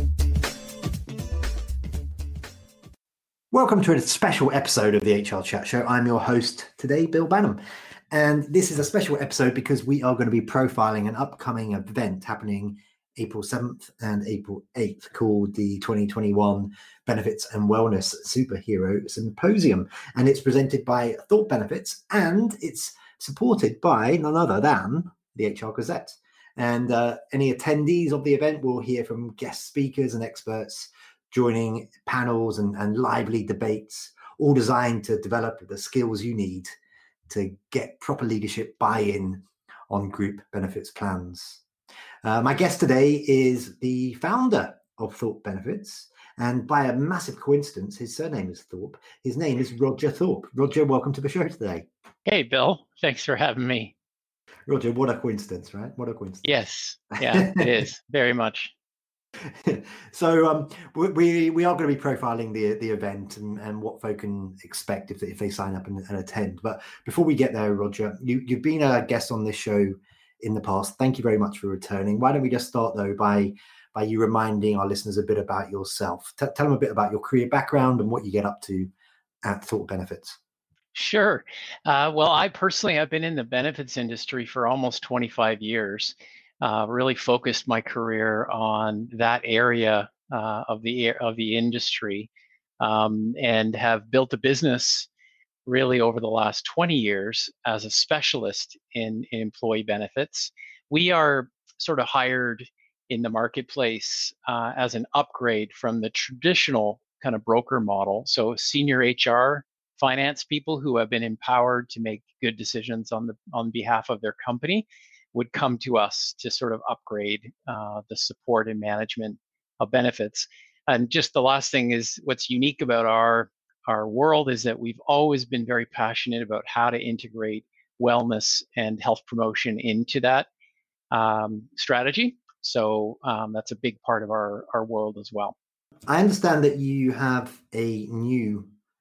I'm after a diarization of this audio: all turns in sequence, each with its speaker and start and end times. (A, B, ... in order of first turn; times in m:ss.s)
0:03.5-0:07.6 A
0:08.1-0:36.7 A
0:37.3-0:41.6 A
0:42.2-0:51.9 A
0:52.3-0:53.9 B
0:54.7-0:56.4 A
0:56.4-0:58.7 B
0:57.3-0:57.7 A
0:59.6-1:18.9 A
1:19.4-1:20.4 A
1:20.9-1:35.1 B
1:35.7-2:10.5 B
2:11.1-2:15.6 B
2:16.1-2:18.7 A